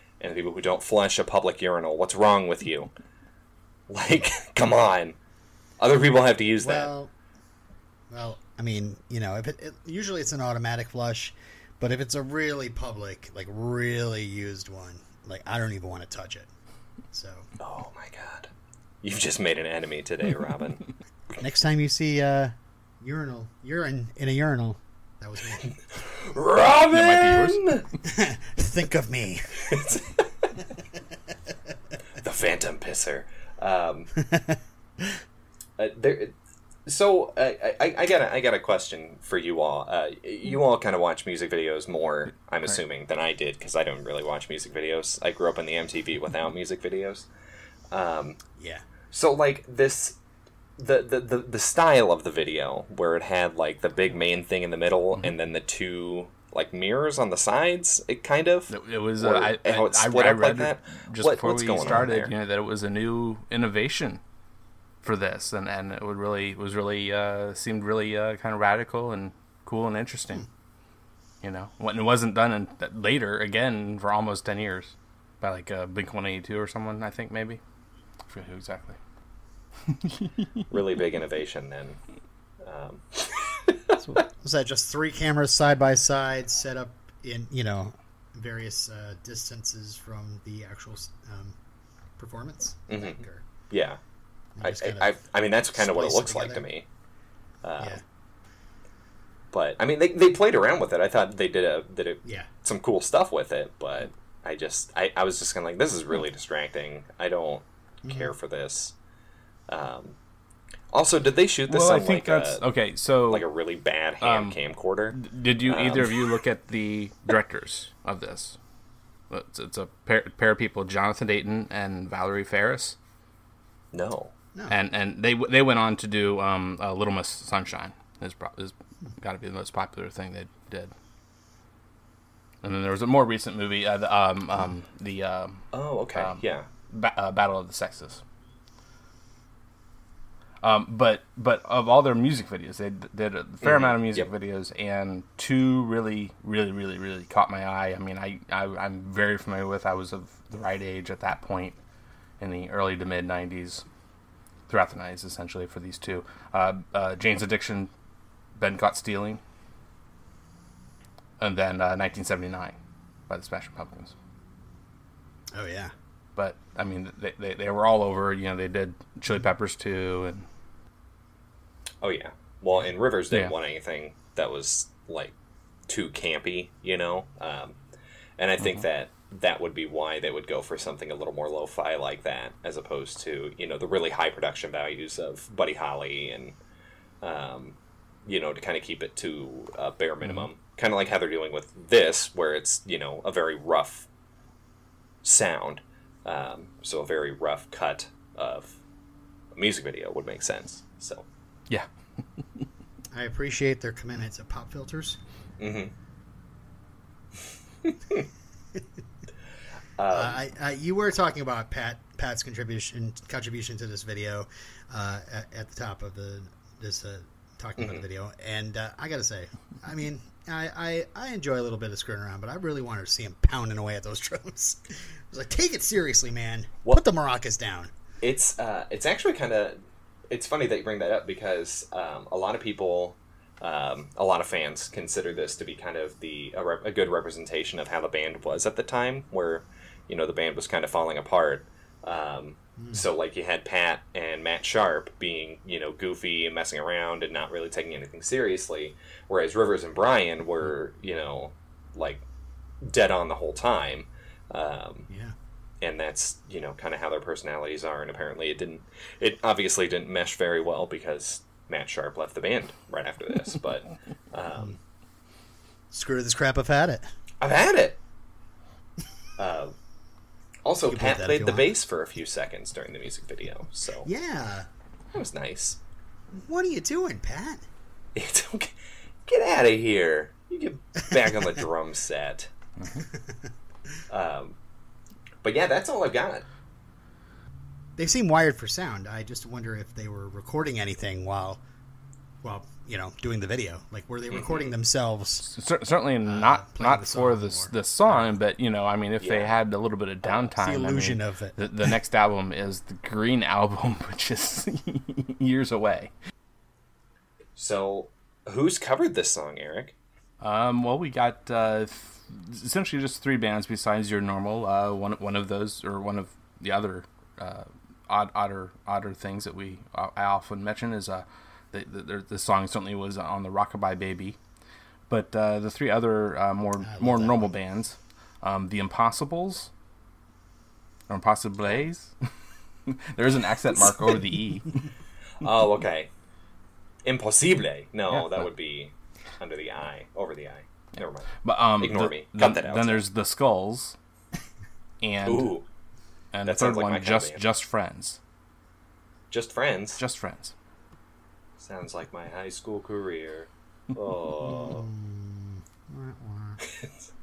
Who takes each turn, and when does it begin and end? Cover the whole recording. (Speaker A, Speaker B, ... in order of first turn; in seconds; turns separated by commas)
Speaker A: 0.2-2.9, Speaker A: 3.9-5.2, Speaker A: 5.8-6.9, Speaker B: 6.6-7.1, Speaker B: 8.1-16.5, Speaker B: 17.1-17.5, Speaker A: 17.6-18.5, Speaker A: 19.0-20.9, Speaker B: 21.4-25.7, Speaker A: 25.6-27.9, Speaker C: 26.9-27.8, Speaker B: 28.0-30.0, Speaker A: 29.7-30.5, Speaker A: 32.2-34.1, Speaker B: 34.3-35.2, Speaker A: 35.8-36.4, Speaker A: 36.9-47.3, Speaker A: 47.9-48.4, Speaker B: 48.6-48.8, Speaker A: 49.1-50.2, Speaker A: 50.8-62.3, Speaker C: 58.7-64.2, Speaker C: 65.0-70.5, Speaker C: 71.4-77.6, Speaker C: 78.3-79.0, Speaker C: 79.9-80.3, Speaker A: 80.7-82.0, Speaker A: 82.6-83.8, Speaker B: 84.0-91.6, Speaker B: 92.2-93.5, Speaker A: 92.9-94.0, Speaker B: 94.6-95.2, Speaker A: 94.6-96.9, Speaker B: 95.7-96.7, Speaker A: 97.6-98.0, Speaker A: 99.5-109.0, Speaker B: 108.0-108.3, Speaker A: 109.7-110.2, Speaker A: 110.9-112.6, Speaker C: 111.7-113.5, Speaker A: 113.3-116.2, Speaker C: 114.2-114.6, Speaker C: 115.1-118.6, Speaker C: 119.3-123.0, Speaker A: 123.9-124.3, Speaker C: 124.7-130.9, Speaker C: 132.6-138.2, Speaker A: 135.7-136.7, Speaker C: 140.6-151.8, Speaker A: 143.6-144.3, Speaker C: 152.4-153.8, Speaker C: 154.7-157.9, Speaker C: 158.6-159.4, Speaker C: 161.4-162.8, Speaker C: 163.3-164.2, Speaker B: 165.5-165.9, Speaker C: 166.4-170.5, Speaker A: 172.0-175.3, Speaker A: 175.9-177.8, Speaker A: 178.4-186.6, Speaker C: 178.6-178.9, Speaker A: 187.2-194.1, Speaker A: 195.2-198.8, Speaker A: 199.6-201.3, Speaker C: 202.4-202.7, Speaker B: 203.1-205.2, Speaker A: 205.6-205.9, Speaker A: 207.8-208.2, Speaker A: 210.0-210.4, Speaker B: 210.1-227.9, Speaker A: 228.2-229.8, Speaker A: 230.3-252.2, Speaker A: 252.8-255.1, Speaker B: 255.1-255.3, Speaker A: 255.8-264.8, Speaker B: 265.9-267.1, Speaker A: 267.4-268.0, Speaker A: 269.4-269.7, Speaker A: 270.6-274.1, Speaker B: 270.9-271.7, Speaker B: 274.1-274.7, Speaker A: 275.1-275.8, Speaker B: 276.3-277.6, Speaker A: 278.1-278.7, Speaker A: 279.3-282.5, Speaker B: 283.1-283.5, Speaker A: 284.1-284.6, Speaker A: 285.4-286.4, Speaker B: 288.0-291.6, Speaker B: 292.4-295.5, Speaker A: 294.3-294.7, Speaker C: 295.4-306.1, Speaker B: 296.2-297.7, Speaker A: 299.2-299.5, Speaker B: 300.6-301.7, Speaker A: 307.6-309.9, Speaker C: 310.4-324.4, Speaker C: 325.1-329.7, Speaker B: 326.8-327.5, Speaker C: 331.1-332.2, Speaker C: 332.9-334.9, Speaker A: 335.4-336.1, Speaker A: 337.1-343.0, Speaker C: 338.1-338.5, Speaker C: 341.4-344.0, Speaker C: 345.0-345.5, Speaker A: 345.2-345.7, Speaker C: 346.3-348.2, Speaker A: 346.4-347.4, Speaker A: 349.3-350.0, Speaker C: 350.0-350.6, Speaker A: 351.6-354.9, Speaker B: 354.4-356.6, Speaker A: 356.7-356.9